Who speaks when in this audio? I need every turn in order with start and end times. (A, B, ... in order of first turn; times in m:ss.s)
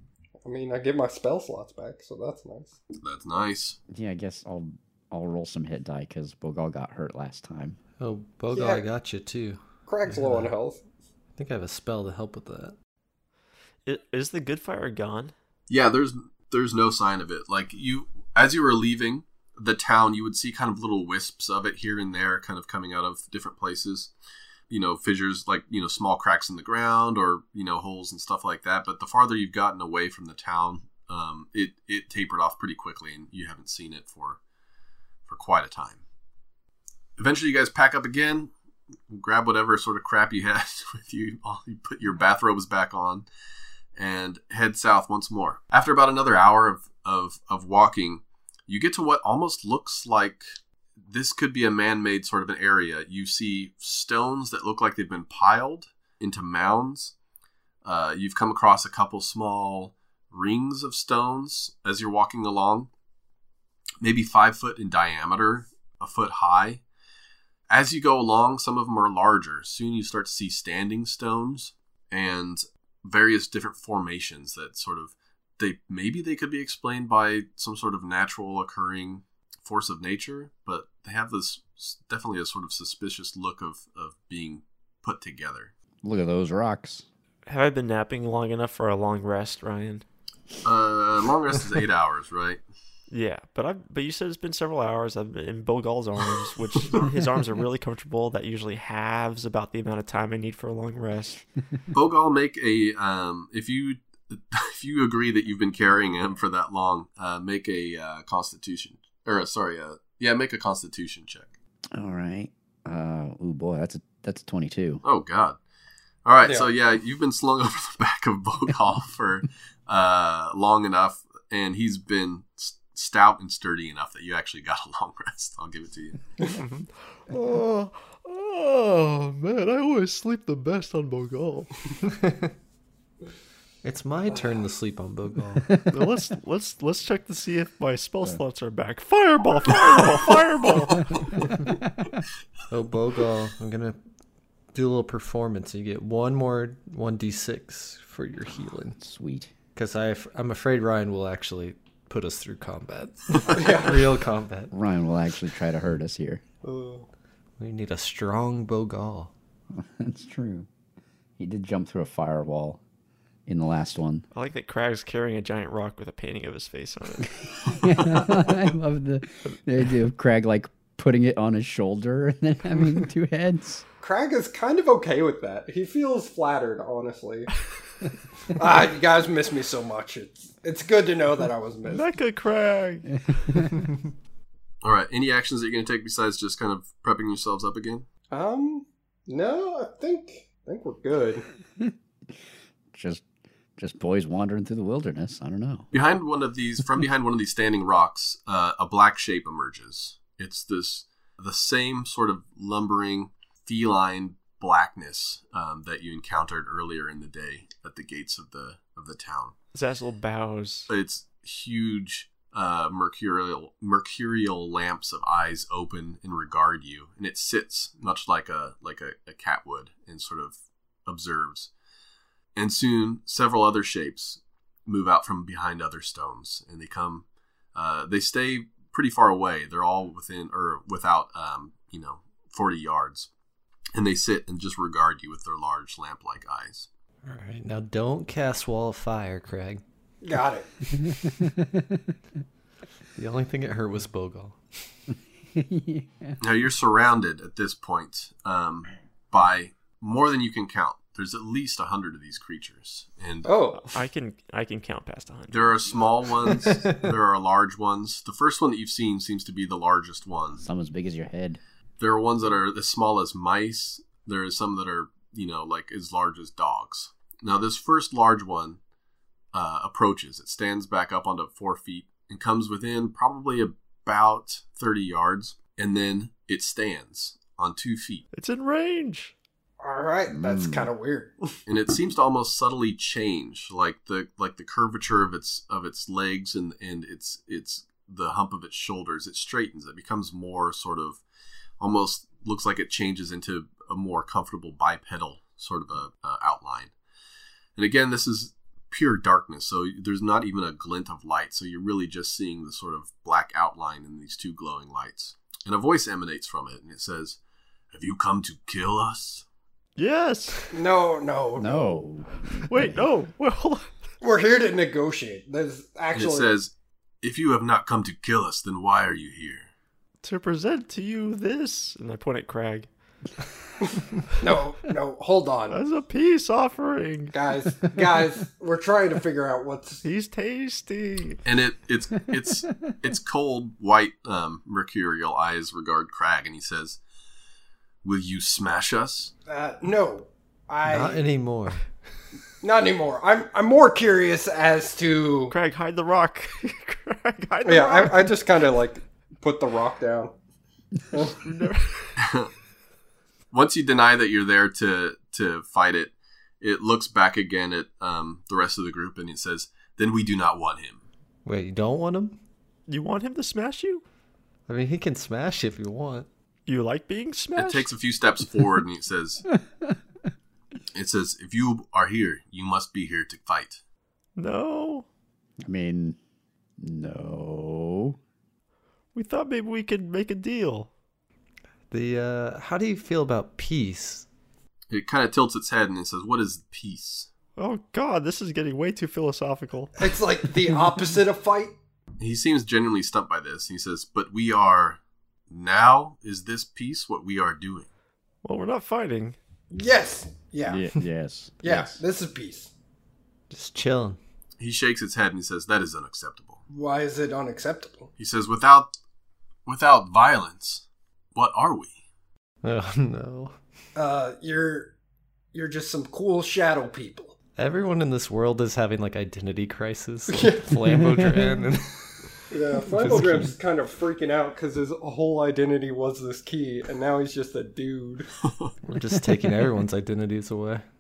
0:00.4-0:02.8 A
0:03.0-0:03.8 B
0:03.9-0:07.8 C
0:08.0-0:10.5 D
0:08.5-0:08.9 A
0:09.9-0:10.8 A
0:11.4-0:12.8 D
0:13.9-0:15.3 E
0:15.7-0:24.1 B
0:24.7-0:34.4 B
0:35.3-0:36.0 B
0:37.2-0:38.5 B
0:39.1-0:43.3 B
0:44.0-0:50.5 B
0:51.0-0:57.1 B
0:57.8-1:02.9 B
1:04.0-1:06.8 B
1:07.7-1:25.7 B
1:26.0-1:27.1 C
1:27.5-1:30.0 E
1:30.6-1:32.6 B
1:33.1-1:41.4 E
1:41.9-1:51.5 B
1:51.9-1:55.0 C
1:55.0-1:55.6 B
1:56.2-2:06.2 B
1:56.4-1:56.7 A
2:06.5-2:11.8 E
2:12.0-2:12.5 D
2:13.8-2:15.8 D
2:15.9-2:21.4 E
2:21.2-2:22.1 C
2:22.7-2:24.0 D
2:24.7-2:29.0 D
2:29.0-2:29.5 C
2:29.8-2:34.7 D
2:33.5-2:34.2 A
2:34.7-2:36.4 C
2:36.6-2:37.1 A
2:37.6-2:39.3 D
2:39.7-2:40.7 C
2:41.4-2:42.8 C
2:43.5-2:44.2 C
2:44.3-2:47.4 E
2:47.7-2:53.8 C
2:54.0-2:57.5 A
2:58.5-3:02.0 A
3:01.9-3:03.7 E
3:04.8-3:08.1 B
3:08.3-3:11.4 A
3:12.9-3:13.2 C
3:13.8-3:15.9 C
3:15.9-3:29.5 B
3:29.7-3:30.9 E
3:30.9-3:41.7 B
3:42.6-3:53.3 B
3:53.9-3:56.9 B
3:57.2-3:59.8 D
4:00.2-4:00.7 A
4:00.9-4:02.0 C
4:03.2-4:04.6 D
4:05.6-4:06.4 C
4:06.4-4:13.5 B
4:13.4-4:14.0 A
4:13.8-4:15.9 E
4:15.5-4:20.6 B
4:16.6-4:17.1 D
4:20.6-4:21.6 C
4:22.0-4:28.8 B
4:29.5-4:38.2 B
4:38.3-4:39.3 E
4:39.8-4:41.5 A
4:40.3-4:40.9 C
4:41.7-4:51.2 B
4:51.8-4:56.9 B
4:57.8-5:07.4 B
5:07.9-5:09.4 B
5:10.0-5:10.7 E
5:10.7-5:12.0 A
5:11.6-5:13.0 C
5:12.7-5:13.9 E
5:14.2-5:16.5 A
5:16.1-5:19.7 B
5:20.2-5:22.9 E
5:24.4-5:25.8 A
5:25.7-5:27.4 E
5:27.3-5:30.0 A
5:30.0-5:31.4 E
5:31.4-5:37.0 B
5:38.0-5:39.3 B
5:39.5-5:41.3 A
5:40.8-5:41.8 D
5:42.6-5:45.5 A
5:45.5-5:48.3 E
5:47.6-5:50.3 A
5:51.1-5:51.4 A
5:51.4-5:52.1 E
5:52.2-5:52.5 B
5:53.5-6:01.0 B
6:01.4-6:02.4 D
6:02.9-6:04.0 E
6:04.7-6:06.3 D
6:06.7-6:07.9 E
6:07.6-6:09.4 B
6:10.9-6:13.8 B
6:14.4-6:15.1 E
6:15.6-6:16.2 C
6:16.8-6:18.2 C
6:19.2-6:20.9 E
6:21.9-6:24.3 D
6:24.9-6:27.3 B
6:27.6-6:30.0 E
6:30.0-6:31.8 A
6:32.2-6:37.9 B
6:38.4-6:39.4 E
6:39.7-6:40.9 A
6:40.7-6:42.0 C
6:41.6-6:42.7 A
6:43.5-6:44.2 D
6:44.6-6:46.6 B
6:46.7-6:48.1 A
6:48.2-6:48.9 B
6:49.7-6:51.9 B
6:52.6-6:53.6 D
6:54.0-6:55.0 A
6:55.5-6:57.4 A
6:57.6-7:03.5 D
7:00.3-7:01.0 A
7:02.5-7:08.3 A
7:08.9-7:10.9 D